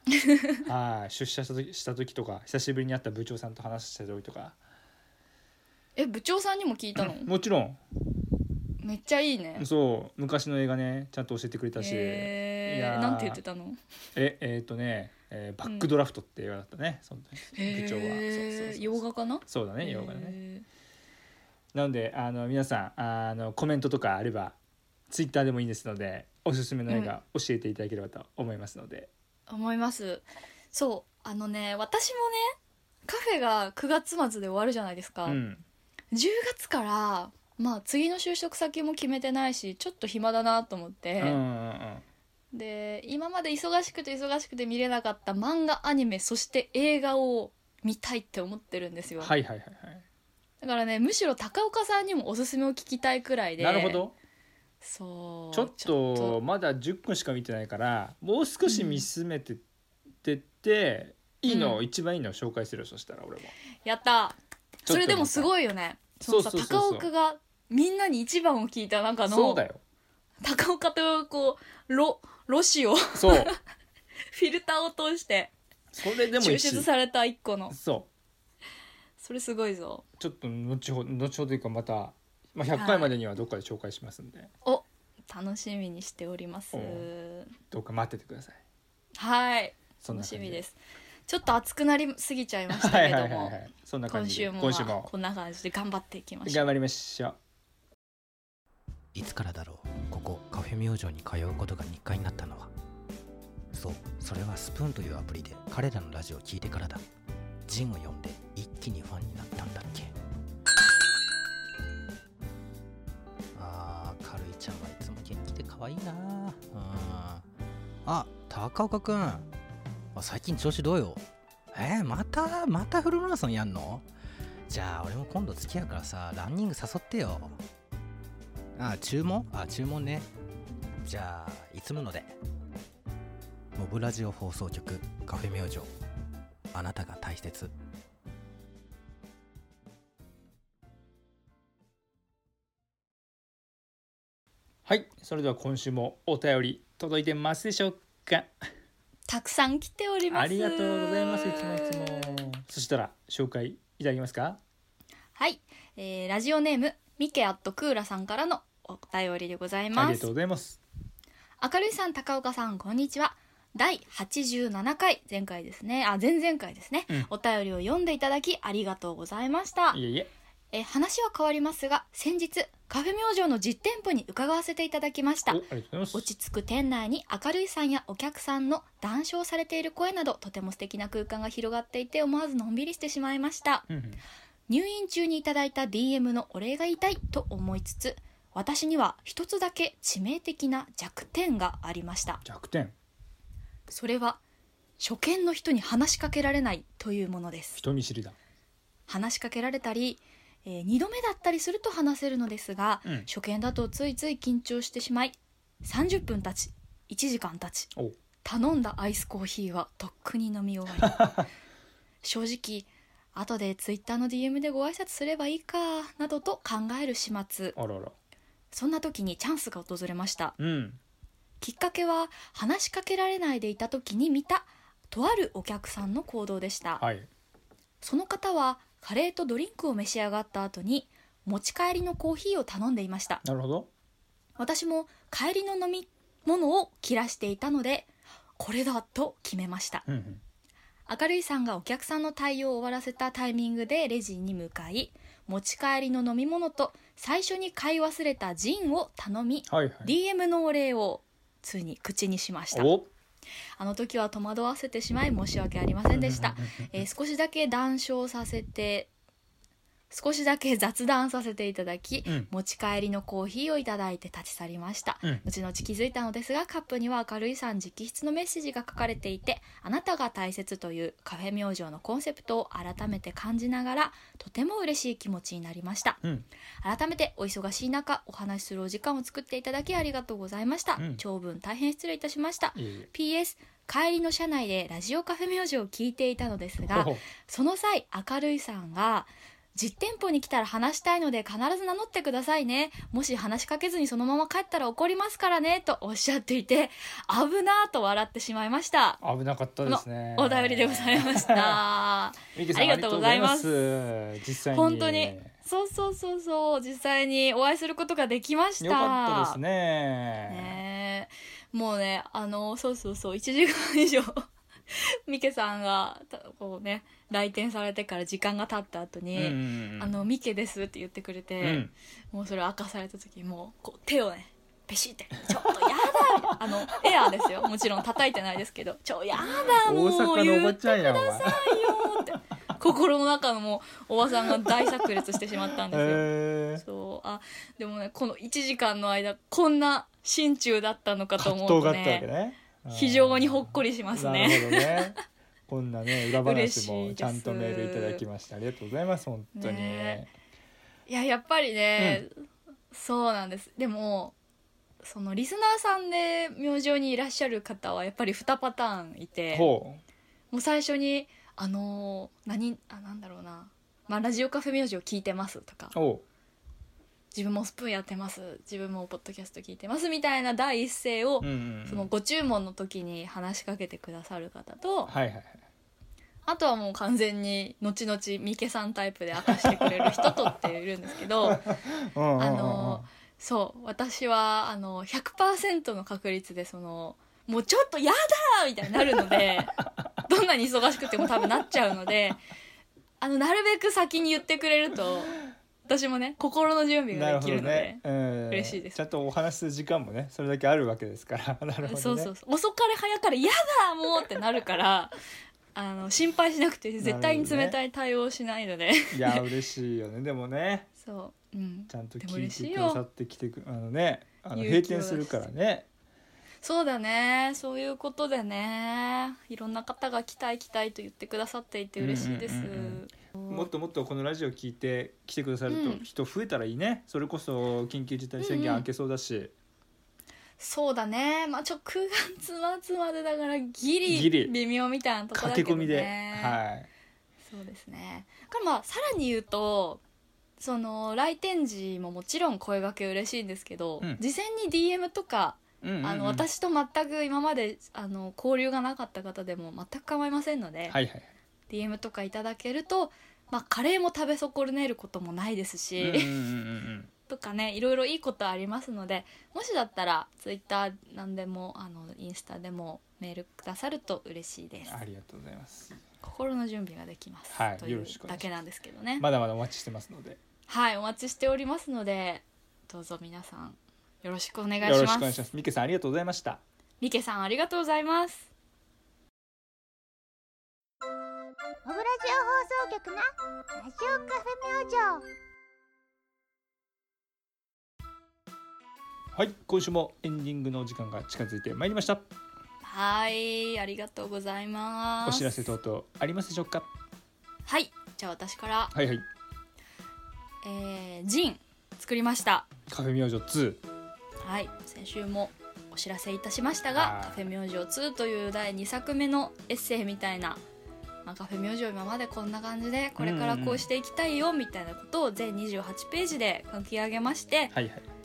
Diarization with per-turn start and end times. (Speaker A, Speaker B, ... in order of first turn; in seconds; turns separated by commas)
Speaker A: 0.1-0.6, Speaker B: 0.6-4.5, Speaker A: 6.0-7.3, Speaker B: 7.0-7.8, Speaker A: 8.8-9.7, Speaker B: 9.6-13.4, Speaker A: 11.8-13.8, Speaker B: 14.1-20.4, Speaker A: 17.5-20.6, Speaker B: 21.7-24.5, Speaker B: 25.1-29.1, Speaker A: 26.9-27.1, Speaker A: 29.5-32.5, Speaker A: 33.0-35.4, Speaker B: 35.2-35.6, Speaker A: 36.1-41.4, Speaker B: 41.2-42.0, Speaker A: 42.5-49.3, Speaker B: 49.2-50.0, Speaker A: 50.6-54.0, Speaker B: 53.6-54.1, Speaker A: 54.8-56.4, Speaker B: 55.5-59.6, Speaker A: 58.6-59.0, Speaker B: 60.2-63.5, Speaker A: 61.5-61.8, Speaker A: 63.8-69.6, Speaker B: 64.8-65.5, Speaker B: 66.2-67.1, Speaker B: 69.2-69.8, Speaker A: 70.4-73.6, Speaker B: 73.1-73.5, Speaker A: 74.3-75.5, Speaker B: 75.9-76.9, Speaker A: 76.3-77.8, Speaker B: 77.7-78.1, Speaker A: 79.2-80.0, Speaker B: 80.2-84.5, Speaker A: 82.7-83.1, Speaker A: 84.6-87.5, Speaker B: 86.7-87.1, Speaker B: 87.7-88.6, Speaker A: 89.2-93.6, Speaker B: 90.0-90.6, Speaker B: 92.7-95.1, Speaker A: 94.1-96.7, Speaker B: 96.5-97.3, Speaker C: 99.1-102.7, Speaker C: 103.7-107.0, Speaker C: 107.7-110.1, Speaker C: 113.5-117.5, Speaker C: 118.0-119.5, Speaker C: 120.1-124.0, Speaker C: 124.7-127.6, Speaker C: 128.8-130.3, Speaker C: 131.0-132.3, Speaker C: 133.7-135.9, Speaker C: 136.7-137.7, Speaker B: 144.8-148.5, Speaker A: 149.3-152.5, Speaker B: 150.3-154.6, Speaker A: 155.3-160.3, Speaker B: 159.9-160.8, Speaker A: 161.6-170.0, Speaker B: 169.9-170.3, Speaker A: 170.7-183.9, Speaker B: 175.5-176.3, Speaker B: 183.9-184.2, Speaker A: 184.7-192.4, Speaker B: 192.4-192.9, Speaker A: 193.9-194.4, Speaker A: 195.0-197.8, Speaker B: 197.8-198.3, Speaker A: 199.1-207.9, Speaker A: 208.4-211.4, Speaker B: 211.0-211.4, Speaker A: 212.2-217.8, Speaker B: 217.7-218.1, Speaker A: 218.7-220.5, Speaker B: 220.6-221.0, Speaker A: 221.6-227.0, Speaker B: 227.0-227.3, Speaker A: 228.0-233.4, Speaker B: 233.4-233.9, Speaker A: 234.6-240.0, Speaker B: 240.1-240.4, Speaker A: 241.1-252.9, Speaker B: 249.7-250.1, Speaker B: 252.7-253.1, Speaker A: 253.8-259.1, Speaker B: 256.1-257.1, Speaker A: 260.1-276.2, Speaker A: 276.8-299.2, Speaker B: 281.0-281.2, Speaker B: 282.7-283.1, Speaker B: 286.8-287.2, Speaker B: 299.2-301.8, Speaker A: 299.8-303.8, Speaker B: 302.5-305.5, Speaker A: 304.7-309.6, Speaker B: 308.8-310.8, Speaker A: 310.5-342.3, Speaker B: 319.3-320.1, Speaker B: 321.6-321.9, Speaker B: 325.6-327.3, Speaker B: 329.4-332.4, Speaker B: 334.4-336.8, Speaker B: 341.4-345.2, Speaker A: 342.9-345.2, Speaker B: 345.7-350.3, Speaker A: 346.2-348.2, Speaker A: 349.6-350.3, Speaker A: 351.1-352.3, Speaker B: 352.0-352.2, Speaker A: 352.9-354.3, Speaker A: 355.0-359.7, Speaker B: 359.5-360.0, Speaker A: 360.5-365.9, Speaker B: 365.9-366.2, Speaker A: 367.3-375.1, Speaker B: 371.4-372.1, Speaker B: 375.1-375.6, Speaker A: 376.5-381.7, Speaker B: 379.4-380.6, Speaker B: 381.4-383.1, Speaker A: 382.4-392.4, Speaker B: 389.1-390.1, Speaker B: 391.1-391.9, Speaker A: 393.2-399.0, Speaker B: 397.1-402.3, Speaker A: 401.8-405.1, Speaker A: 405.7-409.5, Speaker B: 407.0-407.8, Speaker B: 409.1-410.9, Speaker A: 411.0-413.0, Speaker B: 411.9-415.9, Speaker A: 414.5-415.5, Speaker A: 416.6-423.7, Speaker B: 422.0-429.5, Speaker A: 425.7-426.1, Speaker A: 428.4-428.9, Speaker A: 430.6-436.6, Speaker B: 434.1-434.5, Speaker B: 435.3-436.9, Speaker A: 437.4-440.0, Speaker A: 440.6-451.0, Speaker B: 445.8-446.4, Speaker B: 450.9-451.3, Speaker A: 451.7-456.3, Speaker B: 456.0-457.1, Speaker A: 457.3-465.0, Speaker B: 464.8-466.0, Speaker A: 466.2-469.2, Speaker B: 467.5-468.5, Speaker B: 469.2-470.4, Speaker A: 470.7-475.4, Speaker B: 474.8-476.6, Speaker A: 477.0-478.5, Speaker D: 481.8-485.2, Speaker B: 489.3-492.3, Speaker A: 492.8-495.7, Speaker B: 495.2-496.9, Speaker A: 497.6-498.9, Speaker B: 498.9-499.2, Speaker A: 500.6-502.7, Speaker B: 502.9-503.8, Speaker A: 504.4-510.6, Speaker B: 506.9-507.5, Speaker A: 511.2-517.7, Speaker B: 513.2-513.9, Speaker B: 517.7-518.0